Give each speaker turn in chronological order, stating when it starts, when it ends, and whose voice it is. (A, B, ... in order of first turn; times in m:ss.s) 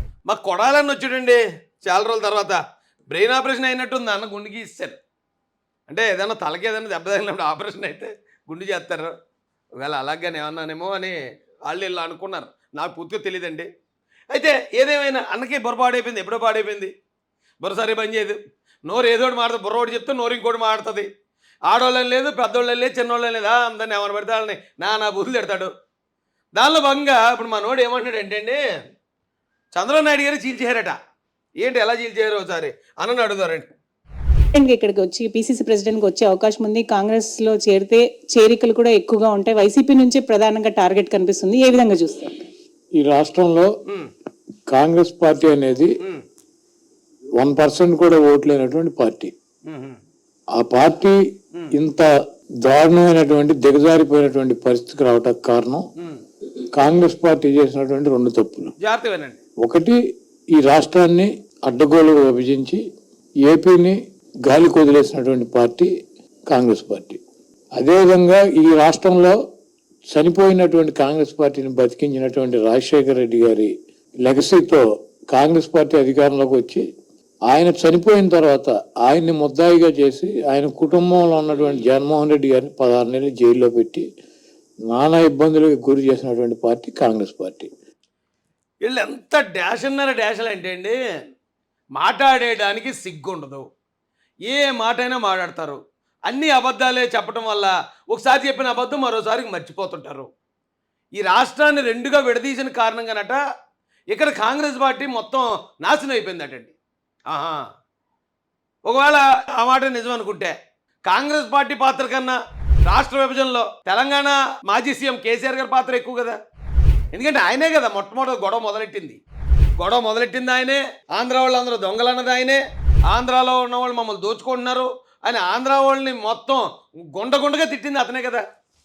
0:00.3-0:02.6 A
0:03.1-0:05.0 A
0:05.9-0:09.1 A
0:09.8-0:13.7 A
0:14.3-0:16.9 A
0:17.6-0:21.1 A
0:21.7-0:25.7 A
0:26.6-0:28.6 A
0:29.7-0:31.0 A
0:31.6-0:33.7 A
0:34.6-0:42.4 B
0:43.0-0:43.7 C
0:43.9-0:44.1 A
0:44.7-0:45.9 C
0:47.4-0:49.3 C
0:49.7-0:50.0 A
0:50.6-0:51.2 C
0:51.7-0:52.1 C
0:52.6-0:55.9 C
0:56.8-0:58.7 C
0:58.8-0:59.4 A
0:59.6-1:00.0 C
1:00.6-1:02.8 C
1:03.4-1:05.9 C
1:06.5-1:07.2 C
1:07.8-1:09.4 C
1:10.1-1:13.7 C
1:14.2-1:16.8 C
1:17.5-1:24.1 C
1:24.9-1:27.7 C
1:28.8-1:31.0 A
1:32.0-1:33.7 A
1:34.5-1:40.3 A
1:41.2-1:43.4 A
1:44.1-1:46.7 A
1:47.3-1:47.7 A
1:48.9-1:50.6 A
1:51.1-1:56.4 A
1:57.1-1:59.2 A
1:59.8-2:08.4 A